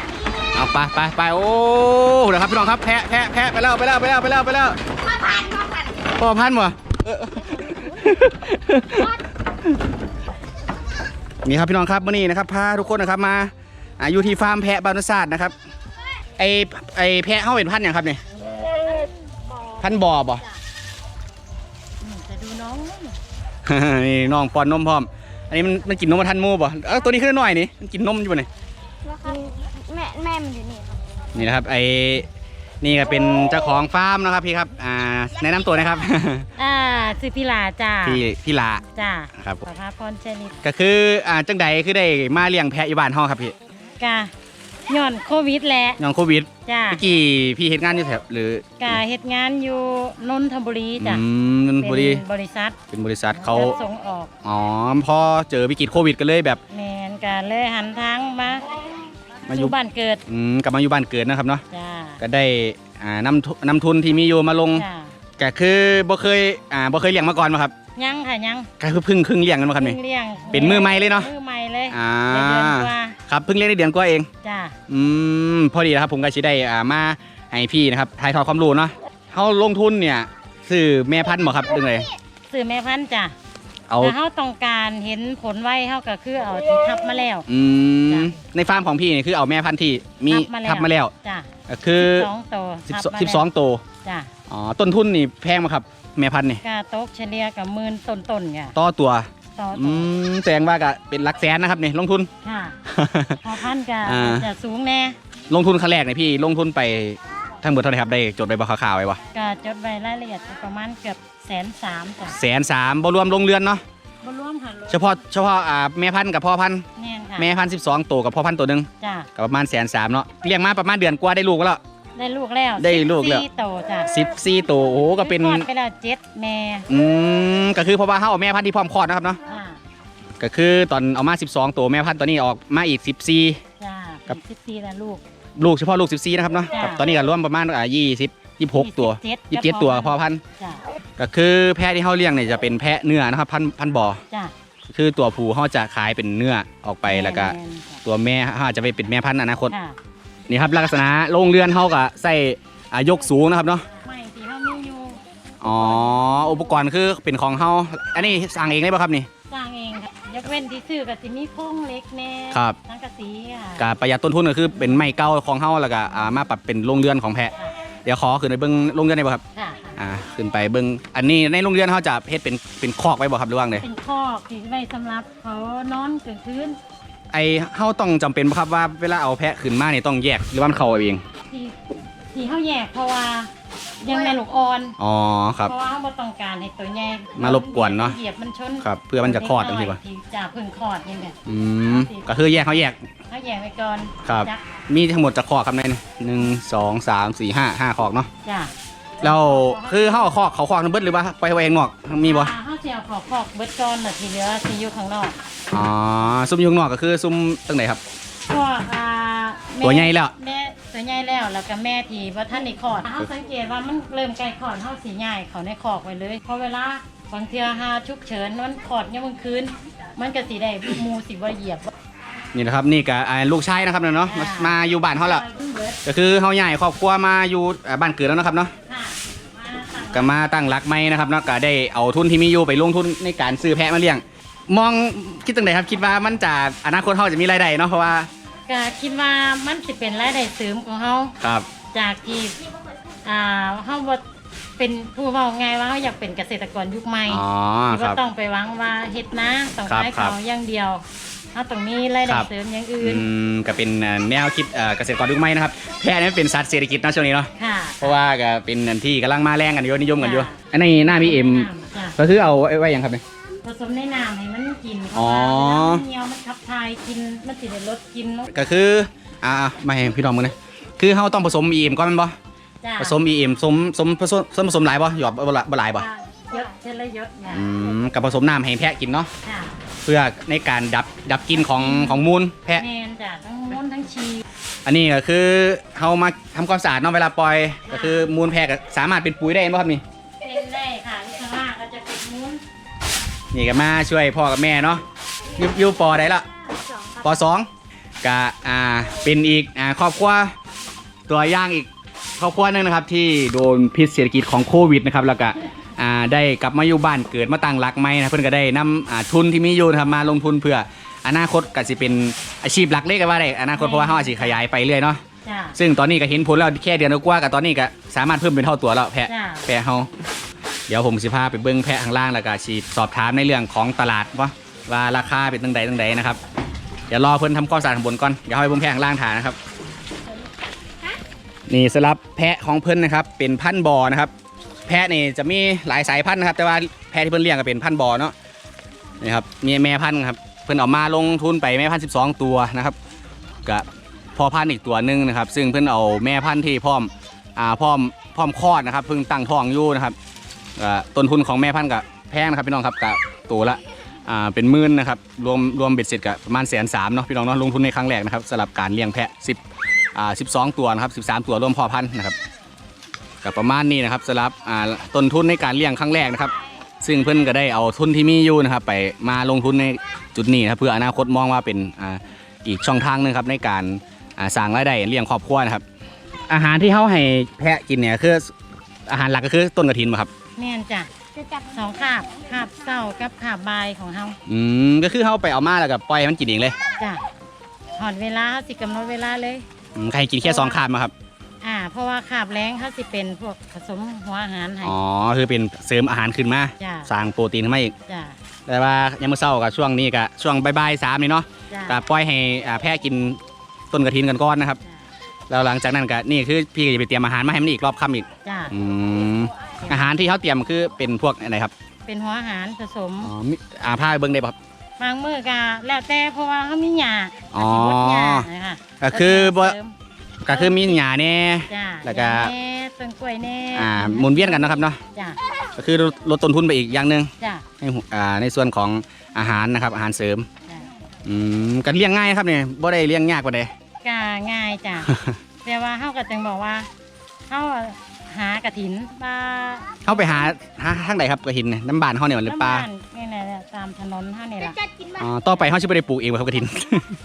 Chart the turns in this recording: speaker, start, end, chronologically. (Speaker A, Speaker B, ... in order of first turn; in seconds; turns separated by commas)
Speaker A: 0.5-4.8, Speaker A: 6.0-9.1, Speaker A: 11.4-15.5, Speaker A: 16.4-18.2, Speaker B: 19.5-19.9, Speaker A: 19.8-20.4, Speaker B: 22.0-23.2, Speaker A: 23.6-28.5, Speaker C: 29.1-31.2, Speaker A: 31.4-32.3, Speaker A: 32.8-36.5, Speaker B: 36.6-38.2, Speaker A: 38.0-38.8, Speaker B: 38.9-40.6, Speaker A: 40.6-43.5, Speaker B: 44.0-44.3, Speaker B: 44.9-46.0, Speaker A: 46.0-49.0, Speaker B: 46.6-47.0, Speaker B: 48.8-51.2, Speaker A: 51.0-52.2, Speaker B: 51.8-52.8, Speaker A: 52.9-53.8, Speaker B: 53.4-54.3, Speaker A: 54.4-56.6, Speaker B: 56.7-58.8, Speaker B: 59.5-60.2, Speaker A: 59.5-59.7, Speaker A: 60.3-61.6, Speaker B: 61.7-62.2, Speaker A: 62.2-64.8, Speaker B: 64.8-65.2, Speaker A: 65.4-67.7, Speaker B: 68.0-68.7, Speaker A: 68.8-70.0, Speaker B: 69.8-73.2, Speaker A: 70.5-71.3, Speaker A: 71.9-74.3, Speaker B: 74.4-74.8, Speaker A: 74.9-82.1, Speaker B: 82.5-83.3, Speaker A: 83.9-84.2, Speaker B: 84.0-87.5, Speaker A: 87.5-91.1, Speaker B: 88.1-88.4, Speaker B: 90.3-93.5, Speaker A: 91.7-92.3, Speaker A: 92.9-93.8, Speaker B: 94.0-94.3, Speaker A: 94.5-96.6, Speaker B: 96.6-98.8, Speaker A: 98.7-102.3, Speaker B: 99.5-100.1, Speaker B: 102.4-102.8, Speaker A: 102.9-103.4, Speaker B: 103.4-105.2, Speaker A: 104.0-104.5, Speaker A: 105.5-109.2, Speaker B: 109.3-112.4, Speaker A: 112.3-113.8, Speaker B: 114.2-115.2, Speaker A: 114.9-116.8, Speaker B: 117.0-117.5, Speaker A: 117.4-121.8, Speaker B: 119.0-119.3, Speaker B: 122.2-124.1, Speaker A: 122.8-123.5, Speaker A: 124.1-125.7, Speaker B: 125.2-126.9, Speaker A: 126.9-129.4, Speaker B: 129.4-129.8, Speaker A: 130.4-133.6, Speaker B: 133.8-135.2, Speaker A: 135.6-140.4, Speaker B: 136.7-137.1, Speaker B: 138.8-140.9, Speaker A: 141.2-144.2, Speaker A: 144.9-149.7, Speaker B: 147.1-148.0, Speaker B: 149.7-150.0, Speaker A: 150.5-153.9, Speaker B: 153.9-156.3, Speaker A: 155.6-159.3, Speaker B: 159.5-163.9, Speaker A: 162.5-162.8, Speaker A: 163.8-167.5, Speaker A: 168.1-169.4, Speaker B: 169.6-170.0, Speaker A: 170.0-173.9, Speaker B: 173.8-176.8, Speaker A: 177.3-181.2, Speaker B: 181.5-181.8, Speaker B: 182.3-183.5, Speaker B: 184.0-185.0, Speaker A: 185.0-185.7, Speaker B: 185.6-192.7, Speaker A: 187.4-188.2, Speaker A: 188.8-190.0, Speaker A: 191.5-193.0, Speaker B: 193.3-194.6, Speaker A: 194.2-198.3, Speaker B: 198.4-200.4, Speaker A: 199.2-202.5, Speaker B: 202.2-205.4, Speaker A: 205.7-208.0, Speaker B: 208.5-221.9, Speaker A: 209.8-210.3, Speaker A: 222.5-225.4, Speaker B: 224.3-226.0, Speaker A: 226.1-228.7, Speaker B: 228.9-230.4, Speaker A: 230.1-238.3, Speaker B: 238.7-241.3, Speaker A: 241.4-241.7, Speaker B: 241.9-242.6, Speaker B: 243.2-244.2, Speaker B: 244.8-253.3, Speaker A: 247.3-248.2, Speaker A: 249.9-250.3, Speaker A: 253.0-257.5, Speaker B: 257.6-258.2, Speaker A: 258.0-263.2, Speaker B: 260.2-262.2, Speaker B: 263.6-268.6, Speaker A: 265.1-266.0, Speaker A: 268.5-272.4, Speaker B: 272.8-273.2, Speaker A: 273.0-276.1, Speaker B: 276.0-277.8, Speaker A: 277.5-279.3, Speaker B: 279.4-279.8, Speaker A: 280.1-282.8, Speaker B: 281.5-282.2, Speaker B: 282.8-284.4, Speaker A: 284.9-290.0, Speaker B: 287.9-288.3, Speaker B: 290.4-292.6, Speaker A: 293.5-295.0, Speaker A: 295.6-296.4, Speaker A: 297.2-297.7, Speaker A: 298.2-300.5, Speaker A: 301.3-315.2, Speaker B: 313.7-314.6, Speaker B: 315.4-315.8, Speaker A: 315.8-320.1, Speaker B: 319.3-319.7, Speaker A: 320.9-326.4, Speaker A: 327.1-329.6, Speaker A: 331.7-334.3, Speaker A: 334.9-338.3, Speaker A: 339.2-343.0, Speaker A: 343.7-350.2, Speaker A: 350.8-359.6, Speaker A: 360.1-362.4, Speaker A: 363.4-375.8, Speaker A: 376.5-378.5, Speaker A: 379.1-380.3, Speaker B: 380.6-384.4, Speaker A: 384.5-386.8, Speaker B: 387.0-387.2, Speaker B: 387.9-389.7, Speaker A: 389.9-391.1, Speaker B: 390.4-390.8, Speaker B: 391.6-395.0, Speaker A: 394.8-397.9, Speaker B: 396.8-397.1, Speaker B: 398.1-398.4, Speaker A: 398.7-403.4, Speaker B: 401.7-402.0, Speaker A: 403.9-404.8, Speaker A: 405.5-411.7, Speaker B: 408.4-408.8, Speaker B: 409.8-410.1, Speaker B: 412.1-413.3, Speaker A: 413.2-414.6, Speaker B: 415.0-419.9, Speaker A: 417.5-418.5, Speaker A: 419.0-419.8, Speaker A: 420.4-422.5, Speaker B: 420.5-421.0, Speaker B: 421.7-425.4, Speaker A: 423.8-425.0, Speaker A: 425.8-430.5, Speaker B: 427.4-427.6, Speaker B: 430.7-430.9, Speaker A: 431.2-433.7, Speaker B: 434.0-436.9, Speaker A: 435.1-435.4, Speaker B: 437.5-440.5, Speaker A: 440.1-442.9, Speaker B: 442.4-445.0, Speaker A: 445.1-447.1